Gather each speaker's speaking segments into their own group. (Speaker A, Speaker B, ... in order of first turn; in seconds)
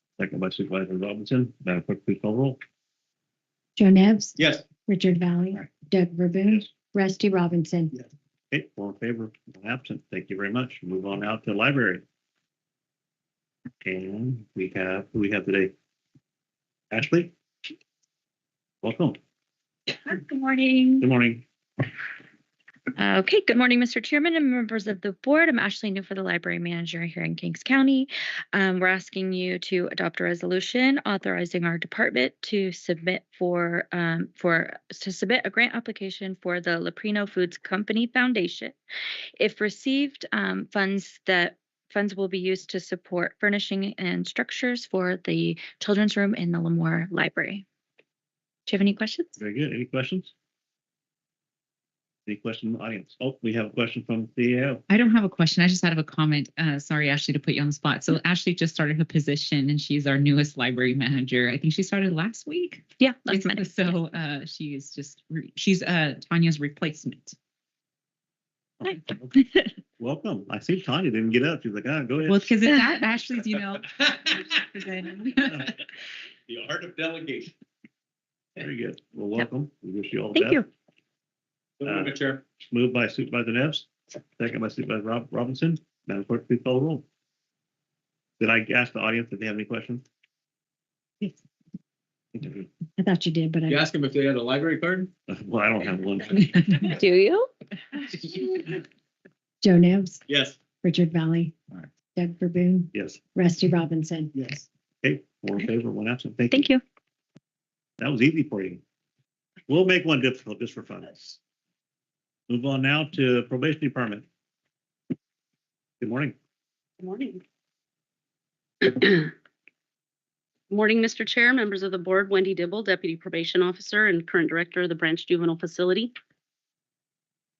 Speaker A: 0.2-2.6, 8.5-12.0, 13.8-15.7, 16.9-17.3, 18.8-19.2, 21.0-21.4, 49.4-50.3, 52.2-54.8, 68.8-69.4, 70.0-72.5, 78.6-80.6, 81.8-87.0, 88.4-90.0, 92.4-92.7, 95.3-96.8, 102.9-103.2, 105.0-106.7, 108.0-108.8, 109.7-111.4, 112.5-114.2, 116.0-116.3
Speaker B: 3.8-7.9, 93.0-93.8, 99.6-100.2, 100.8-101.5, 102.1-104.5
Speaker C: 4.4-4.6, 76.5-77.5, 81.8-82.4, 93.7-95.1, 100.3-100.6
Speaker D: 20.0-21.0, 23.0-38.8, 39.4-47.6, 48.7-49.3, 63.0-64.0, 72.7-73.0, 96.9-97.5
Speaker E: 54.9-67.3, 72.3-73.8, 74.7-75.6
Speaker F: 117.0-117.4, 118.8-119.3, 120.7-126.1